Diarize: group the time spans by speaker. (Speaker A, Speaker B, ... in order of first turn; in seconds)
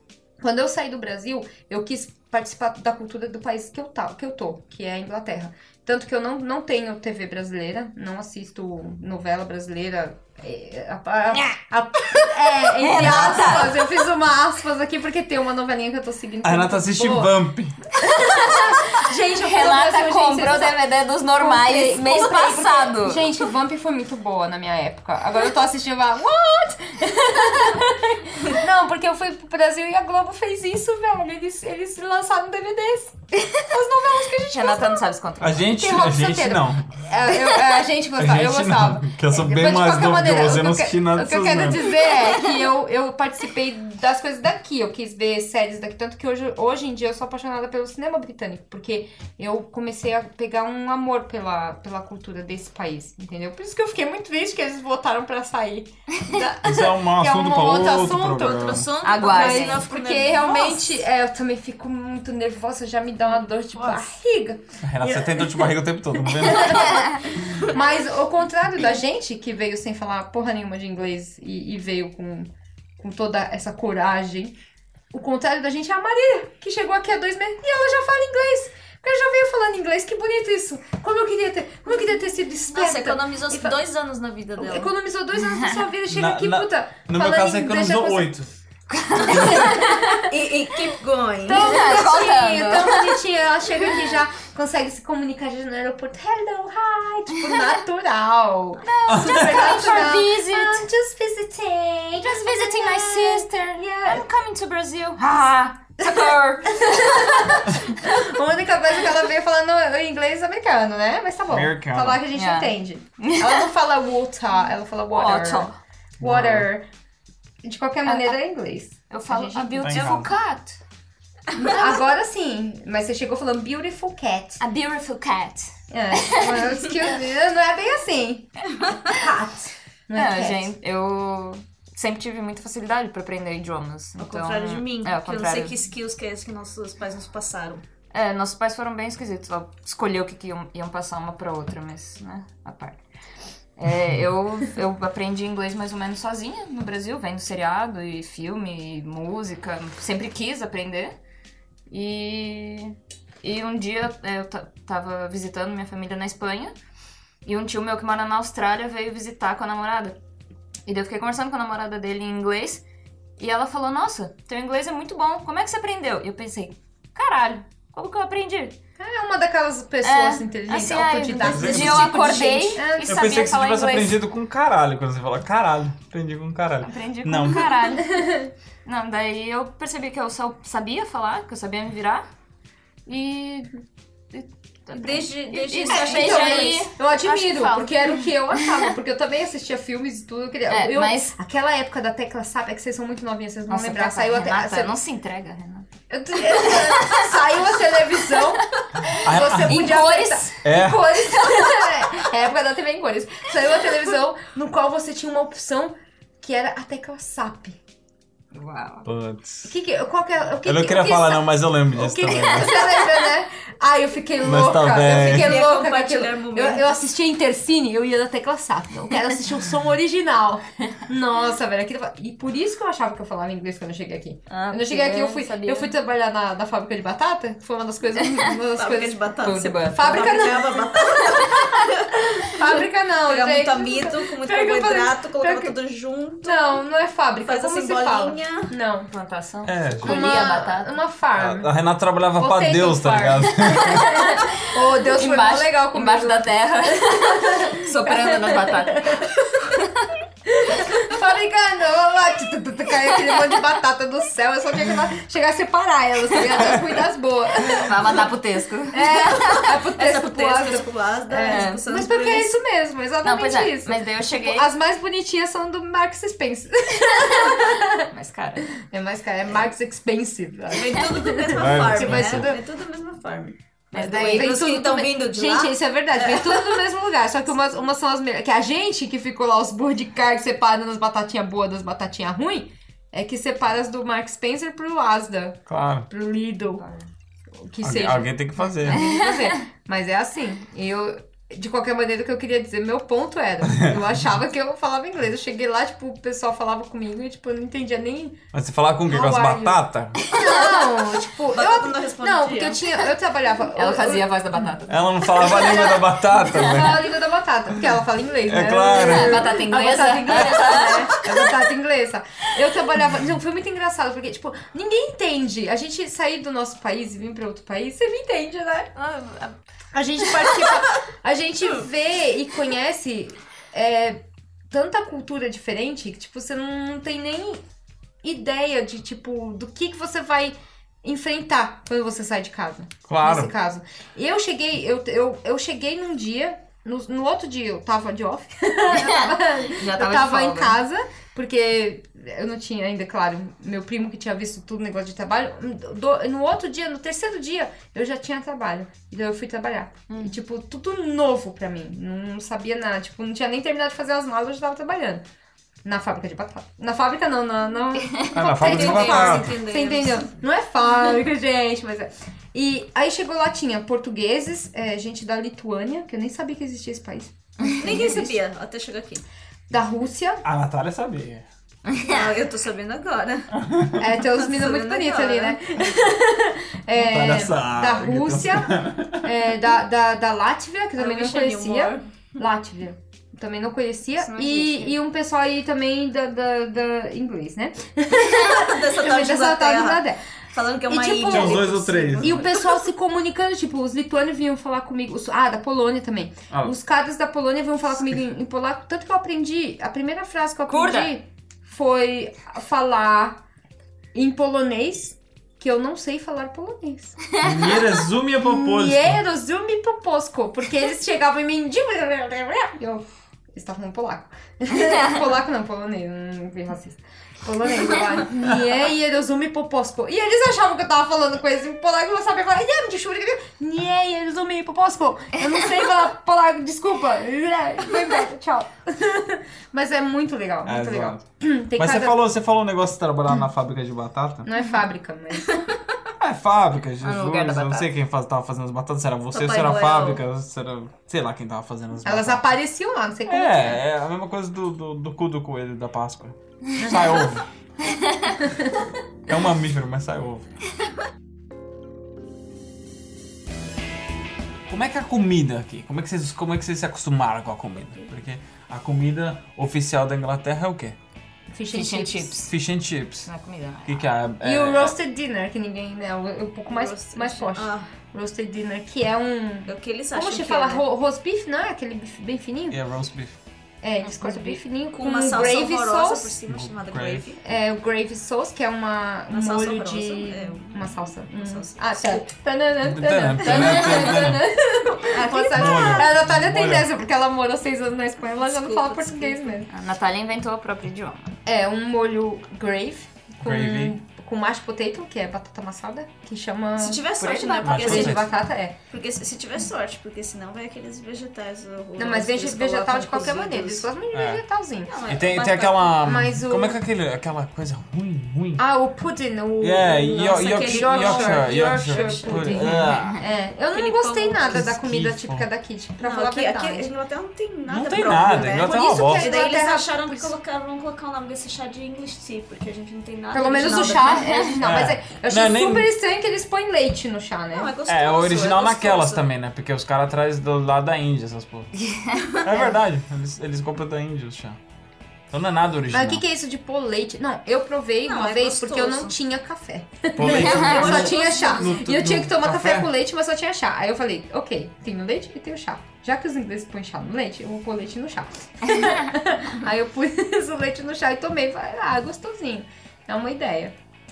Speaker A: 0.4-17.4, 18.1-20.8, 21.4-35.1, 35.6-65.7, 66.3-74.5, 75.1-83.8, 84.6-88.3, 89.3-90.2, 91.5-104.3, 106.7-115.7, 116.2-116.9, 117.6-120.2, 121.5-124.6, 125.9-130.7, 169.0-173.5, 178.0-178.5, 185.9-195.0, 196.1-207.8, 209.7-235.8, 236.4-239.1, 240.0-241.7, 242.4-249.7, 250.5-258.3, 258.9-268.1, 268.8-272.6, 273.9-286.8, 287.6-298.4, 299.1-304.7, 305.3-318.9, 319.9-327.6, 328.2-355.3, 355.9-368.4, 369.7-370.4, 374.0-390.2, 390.9-403.4, 404.1-407.2, 408.4-432.2, 434.4-435.7, 442.0-443.8, 446.8-447.2, 448.4-448.8, 461.5-462.4, 464.4-472.8, 473.8-476.3, 477.4-489.7, 491.5-497.1, 497.7-498.8, 502.0-504.9, 506.0-506.8, 508.6-516.9, 518.1-520.3, 523.3-527.7, 535.9-553.8
Speaker B: 12.8-13.8, 58.4-61.0, 63.7-64.1, 82.7-84.9, 90.1-91.9, 134.2-137.8, 171.4-172.6, 184.9-186.9, 215.1-216.9, 228.8-232.7, 233.2-236.8, 237.5-238.7, 259.0-262.5, 270.7-276.9, 301.5-303.0, 319.0-319.5, 320.3-320.8, 358.6-360.3, 367.8-369.2, 372.0-373.6, 374.2-375.7, 381.0-382.1, 388.1-392.9, 439.3-440.2, 466.7-467.9, 469.7-470.8, 474.9-477.4, 479.3-482.3, 483.4-484.3, 485.1-486.1, 488.4-489.6, 496.8-498.3, 498.9-503.9, 504.9-506.1, 510.4-513.0, 513.7-514.7, 516.0-524.6, 527.5-529.2, 538.0-539.1, 540.2-541.8
Speaker C: 12.9-13.7, 18.1-23.5, 34.5-35.7, 59.0-59.9, 88.9-90.2, 91.5-93.2, 98.8-100.9, 102.2-103.5, 104.0-108.3, 112.3-113.6, 115.1-115.8, 118.1-118.4, 119.1-120.8, 124.6-126.7, 130.2-135.8, 138.1-143.0, 143.8-151.2, 151.9-156.7, 157.4-160.2, 160.9-162.8, 163.4-168.8, 170.0-174.2, 176.8-178.3, 178.8-182.3, 183.1-183.8, 184.3-188.3, 190.7-191.3, 193.7-197.2, 199.1-200.6, 201.2-201.9, 208.5-209.1, 224.5-225.9, 229.6-230.4, 239.1-241.0, 243.7-250.1, 257.6-259.3, 261.5-261.8, 263.2-264.7, 267.4-268.8, 286.8-287.1, 289.0-289.5, 300.4-300.6, 303.7-305.9, 306.5-306.9, 308.9-311.4, 338.9-340.8, 350.1-350.4, 367.6-368.1, 371.9-372.3, 384.2-385.0, 400.7-401.1, 407.3-407.8, 414.9-415.2, 437.0-437.9, 461.7-462.5, 463.2-464.1, 474.0-474.6, 483.5-483.8, 489.7-491.4, 497.2-498.1, 512.9-513.2, 531.8-532.5, 540.2-541.0
Speaker D: 13.0-13.6, 16.4-17.9, 35.4-37.0, 38.1-42.0, 56.6-58.9, 64.8-67.2, 86.1-88.6, 89.3-89.7, 99.1-99.7, 111.5-112.2, 116.2-116.7, 119.8-120.3, 171.4-172.2, 173.1-177.8, 199.2-199.9, 200.6-201.1, 209.1-209.7, 210.7-212.9, 214.4-215.6, 239.7-240.2, 241.4-244.1, 271.5-272.5, 285.7-286.1, 287.8-289.1, 293.7-294.0, 298.5-300.2, 304.9-307.1, 308.5-309.5, 333.1-333.5, 358.3-359.5, 370.4-371.5, 373.6-374.0, 376.9-379.3, 391.3-392.5, 407.4-409.2, 430.6-431.2, 431.8-434.5, 436.2-442.5, 443.3-447.5, 449.3-450.5, 454.7-461.0, 462.4-463.3, 463.9-464.9, 472.7-473.4, 476.5-477.3, 482.8-484.5, 485.6-486.9, 493.4-494.0, 497.6-498.3, 504.1-504.4, 505.1-508.6, 509.6-513.2, 514.5-515.5, 517.7-519.4, 524.6-525.9, 527.9-531.7, 532.4-534.6, 535.3-536.2, 540.2-542.9